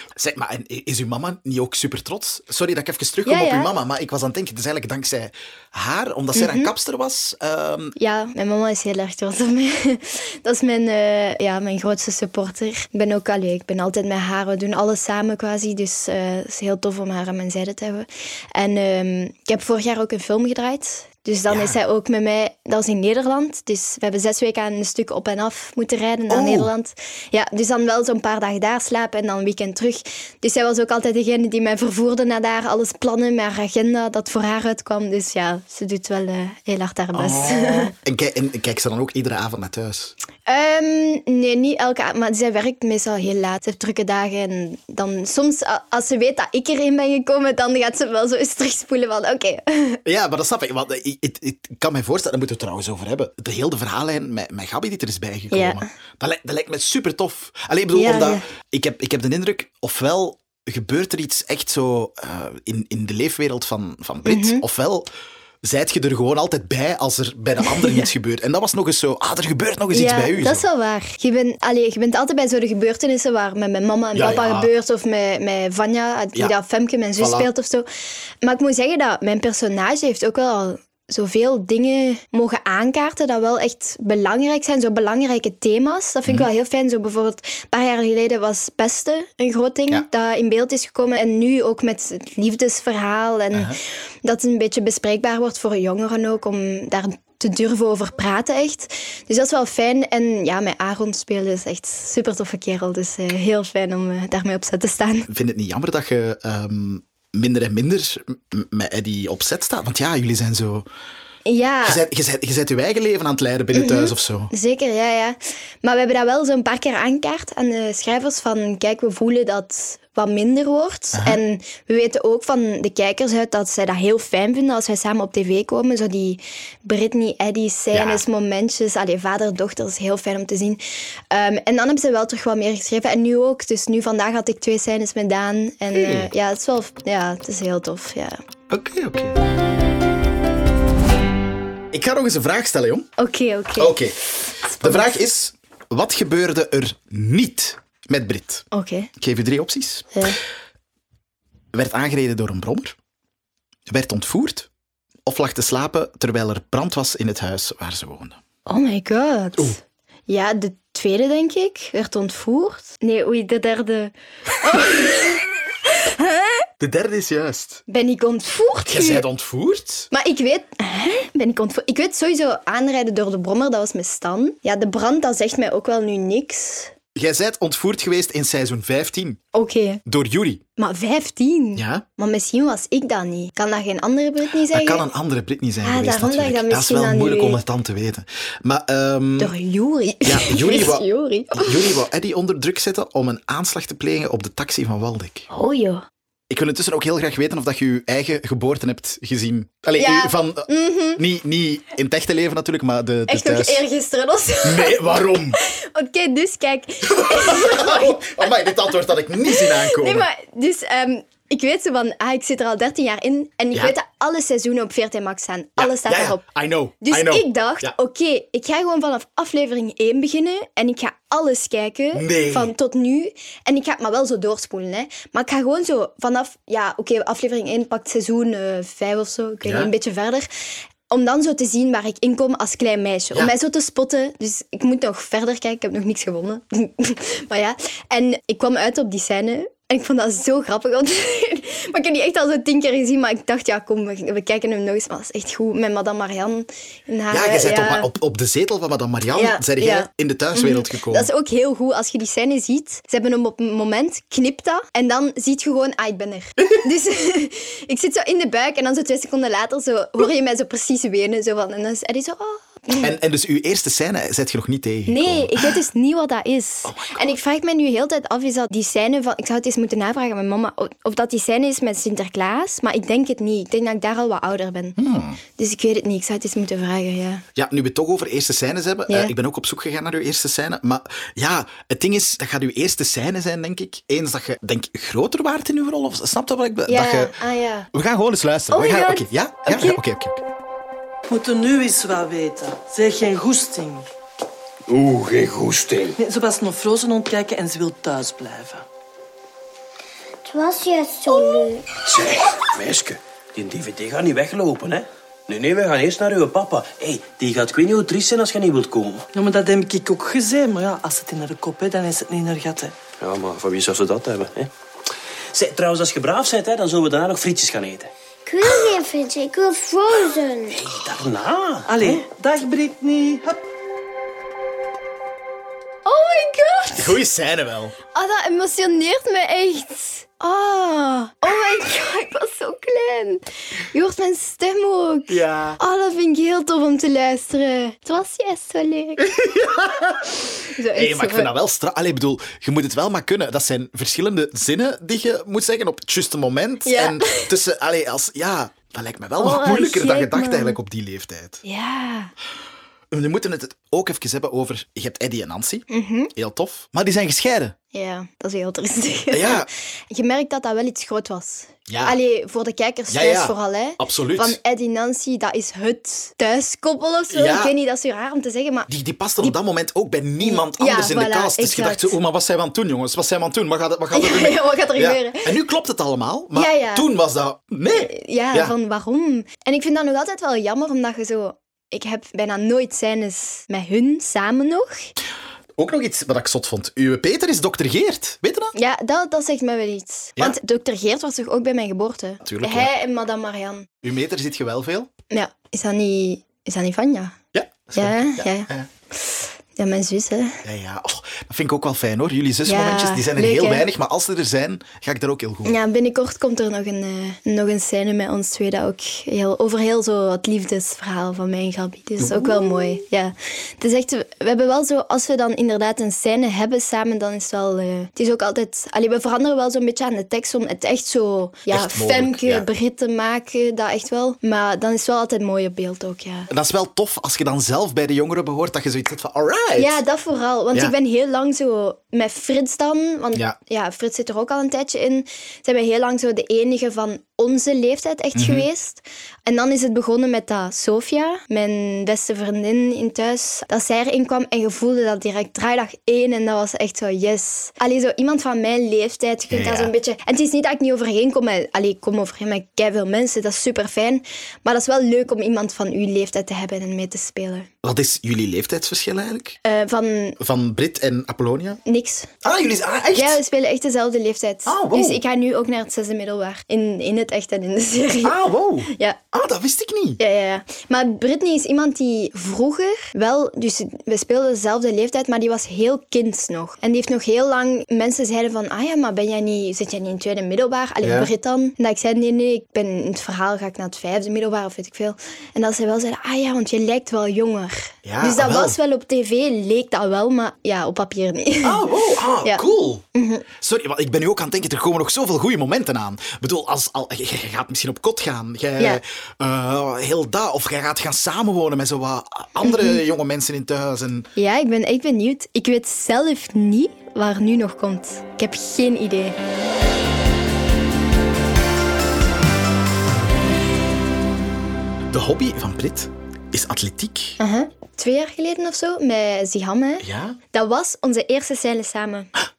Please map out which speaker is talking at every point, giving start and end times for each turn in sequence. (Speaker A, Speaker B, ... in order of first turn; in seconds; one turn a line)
Speaker A: 0.1-8.0
Speaker B: 3.2-3.7
Speaker B: 6.3-6.7
Speaker B: 8.0-37.9
Speaker A: 21.5-21.8
Speaker A: 26.3-26.7
Speaker A: 37.1-40.1
Speaker B: 40.5-50.0
Speaker A: 50.0-65.1
Speaker B: 55.5-55.9
Speaker B: 57.9-58.5
Speaker B: 64.2-64.6
Speaker A: 65.6-70.7
Speaker B: 67.6-68.1
Speaker B: 69.9-77.9
Speaker A: 74.1-74.7
Speaker A: 77.2-77.5
Speaker B: 78.4-105.3
Speaker A: 93.5-93.8
Speaker A: 105.3-110.9
Speaker B: 111.5-112.0
Speaker A: 111.8-114.5
Speaker B: 113.7-138.4
Speaker A: 121.1-121.4
Speaker A: 127.9-128.2
Speaker A: 135.9-136.3
Speaker A: 138.7-139.4
Speaker A: 141.9-143.1
Speaker B: 143.2-144.1
Speaker A: 143.8-144.2
Speaker B: 144.6-145.1
Speaker A: 144.7-148.6
Speaker B: 148.7-149.1
Speaker A: 149.2-150.2
Speaker A: 151.7-152.9
Speaker A: 153.9-154.7
Speaker A: 155.2-158.4
Speaker B: 158.7-166.7
Speaker A: 166.8-167.8
Speaker B: 167.9-169.2
Speaker A: 168.8-170.1
Speaker B: 170.1-176.9
Speaker A: 177.1-179.4
Speaker B: 179.5-180.0
Speaker A: 180.1-180.6
Speaker B: 180.8-185.1
Speaker A: 181.7-182.0
Speaker A: 184.7-189.5
Speaker B: 185.8-187.6
Speaker B: 189.4-192.0
Speaker A: 190.2-195.5
Speaker B: 195.5-196.0
Speaker A: 196.5-203.8
Speaker B: 200.0-201.2
Speaker B: 203.3-216.4
Speaker A: 204.6-205.6
Speaker A: 207.1-210.3
Speaker A: 215.8-217.9
Speaker B: 217.0-230.5
Speaker A: 222.1-222.7
Speaker A: 229.6-229.9
Speaker B: 231.1-248.1
Speaker A: 247.3-251.3
Speaker B: 249.3-263.1
Speaker A: 262.9-265.7
Speaker B: 265.1-275.0
Speaker A: 266.8-267.2
Speaker A: 275.0-275.4
Speaker B: 275.5-277.4
Speaker A: 277.5-287.3
Speaker B: 286.9-287.9
Speaker A: 287.9-290.4
Speaker B: 288.7-290.0
Speaker C: 291.3-294.1
Speaker D: 294.9-296.1
Speaker C: 296.2-298.8
Speaker E: 300.4-301.9
Speaker D: 302.1-309.2
Speaker C: 309.3-312.9
Speaker D: 313.2-314.7
Speaker D: 315.5-318.1
Speaker E: 318.4-320.8
Speaker D: 320.8-322.2
Speaker C: 321.9-323.6
Speaker B: 326.0-327.2
Speaker A: 326.9-327.9
Speaker B: 328.1-339.3
Speaker A: 335.3-335.8
Speaker A: 339.2-340.4
Speaker B: 340.7-341.5
Speaker A: 340.9-351.6
Speaker B: 346.8-347.5
Speaker B: 349.4-350.8
Speaker B: 351.6-352.3
Speaker A: 353.1-357.7
Speaker B: 355.9-356.3
Speaker B: 357.9-368.9
Speaker A: 359.3-359.7
Speaker A: 361.9-362.2
Speaker A: 363.1-364.6
Speaker A: 367.3-367.7
Speaker A: 368.9-378.7
Speaker B: 370.4-372.1
Speaker B: 374.1-375.6
Speaker B: 376.5-377.1
Speaker B: 377.9-385.1
Speaker A: 385.8-388.7
Speaker B: 388.7-393.9
Speaker A: 392.4-392.9
Speaker A: 394.0-395.1
Speaker B: 395.3-397.4
Speaker A: 397.5-398.9
Speaker B: 397.9-400.6
Speaker A: 400.6-405.8
Speaker B: 402.6-403.9
Speaker B: 405.6-426.5
Speaker A: 412.2-412.7
Speaker A: 421.7-422.6
Speaker A: 426.5-430.0
Speaker B: 429.8-457.7
Speaker A: 438.3-438.6
Speaker A: 449.5-449.9
Speaker A: 457.8-459.6
Speaker B: 459.6-460.4
Speaker A: 460.4-461.8
Speaker B: 461.8-462.3
Speaker A: 462.4-463.4
Speaker B: 463.1-469.2
Speaker A: 464.6-465.2
Speaker A: 468.2-470.2
Speaker B: 470.2-491.9
Speaker A: 481.0-481.3
Speaker A: 488.0-488.8
Speaker A: 491.6-493.0
Speaker B: 492.4-493.4
Speaker A: 493.6-504.3
Speaker B: 502.6-503.0
Speaker B: 504.4-509.4
Speaker A: 515.1-517.4
Speaker B: 517.4-522.3
Speaker A: 520.0-520.4